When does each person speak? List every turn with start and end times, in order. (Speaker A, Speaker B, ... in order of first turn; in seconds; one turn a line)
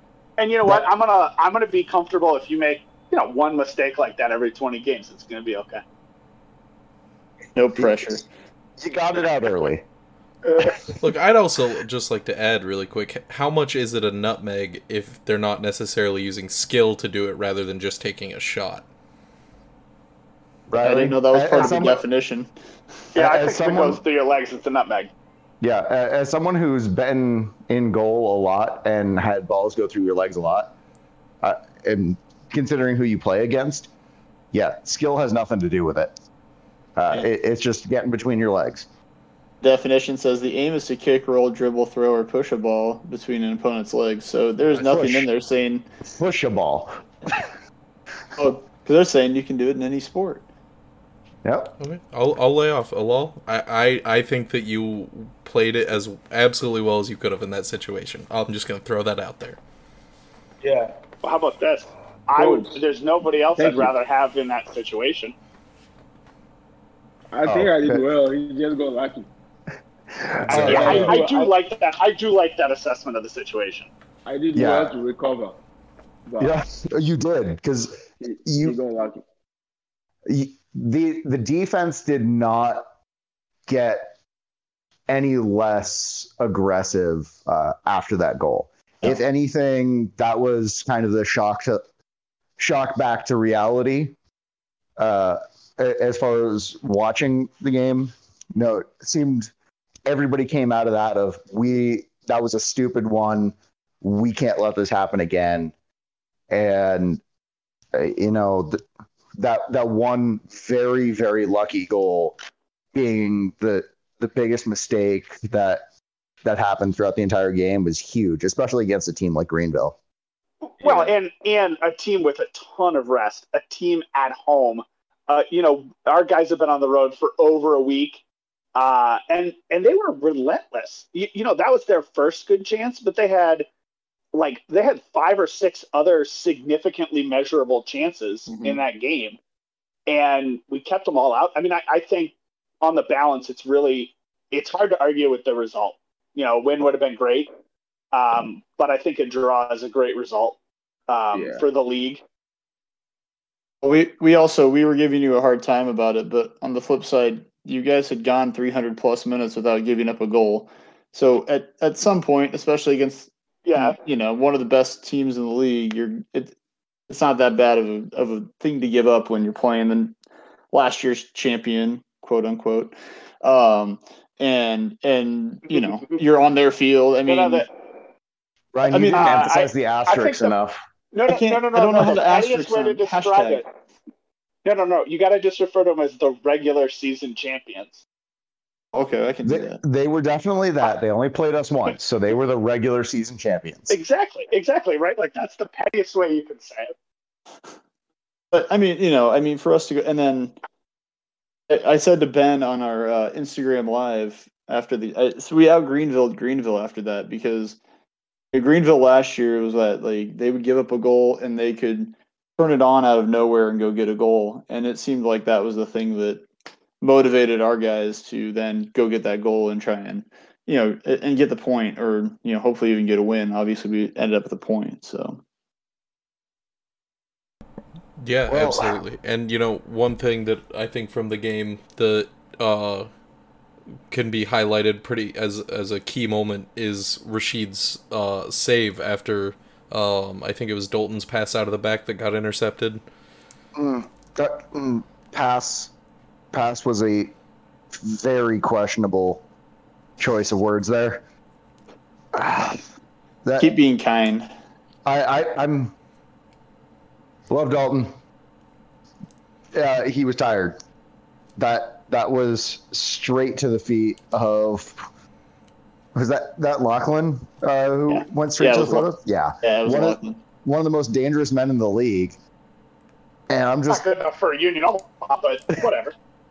Speaker A: 0.4-5.8
Speaker B: 7.5-8.2
Speaker C: 7.8-8.2
Speaker C: 8.8-9.8
Speaker A: 10.4-10.8
Speaker D: 10.8-18.8
Speaker C: 20.7-22.0
Speaker B: 20.8-22.5
Speaker A: 21.6-22.0
Speaker C: 23.1-24.0
Speaker A: 23.1-25.1
Speaker C: 25.6-30.7
Speaker C: 31.4-33.9
Speaker C: 34.5-36.1
Speaker C: 37.0-38.9
Speaker B: 39.6-45.9
Speaker C: 44.7-45.3
Speaker C: 46.1-47.5
Speaker B: 48.4-50.4
Speaker C: 51.4-51.8
Speaker D: 51.8-59.6
Speaker E: 60.6-61.0
Speaker A: 61.2-65.3
Speaker E: 62.3-62.8
Speaker E: 63.5-63.9
Speaker E: 67.3-69.3
Speaker C: 67.4-68.0
Speaker C: 70.1-71.2
Speaker A: 70.5-73.9
Speaker E: 70.5-71.5
Speaker E: 74.2-75.6
Speaker C: 74.5-75.0
Speaker E: 76.3-76.6
Speaker C: 76.4-78.8
Speaker E: 78.2-79.2
Speaker C: 80.3-82.9
Speaker C: 83.7-84.1
Speaker C: 85.1-91.8
Speaker C: 92.6-94.2
Speaker C: 95.0-99.5
Speaker C: 100.0-105.7
Speaker C: 106.5-107.2
Speaker C: 107.9-108.8
Speaker C: 109.4-112.4
Speaker C: 112.9-115.8
Speaker C: 116.4-120.0
Speaker A: 120.6-128.2
Speaker E: 120.8-121.1
Speaker A: 128.7-133.7
Speaker A: 134.3-139.4
Speaker B: 138.5-138.8
Speaker A: 140.1-147.5
Speaker A: 148.1-152.2
Speaker E: 151.3-151.7
Speaker B: 153.8-166.5
Speaker A: 163.6-164.0
Speaker B: 167.1-170.1
Speaker B: 170.7-177.7
Speaker A: 175.7-176.2
Speaker A: 177.3-177.7
Speaker C: 178.7-180.8
Speaker B: 178.9-179.4
Speaker A: 179.1-180.5
Speaker A: 181.1-183.7
Speaker B: 181.3-183.6
Speaker A: 184.6-188.0
Speaker B: 188.9-189.8
Speaker C: 189.4-194.0
Speaker A: 193.9-196.9
Speaker B: 198.5-200.5
Speaker B: 201.7-207.8
Speaker B: 208.5-216.4
Speaker B: 217.0-225.4
Speaker D: 228.2-233.1
Speaker C: 228.5-229.0
Speaker D: 234.1-243.0
Speaker C: 243.7-245.9
Speaker C: 246.5-247.3
Speaker C: 247.9-249.4
Speaker C: 250.2-251.2
Speaker C: 252.3-252.8
Speaker C: 253.4-253.7
Speaker B: 253.6-254.5
Speaker C: 255.0-255.9
Speaker C: 257.5-258.2
Speaker C: 259.7-260.8
Speaker C: 261.6-265.1
Speaker C: 266.1-272.4
Speaker B: 268.1-269.1
Speaker B: 269.6-270.4
Speaker C: 273.5-274.1
Speaker A: 273.9-276.1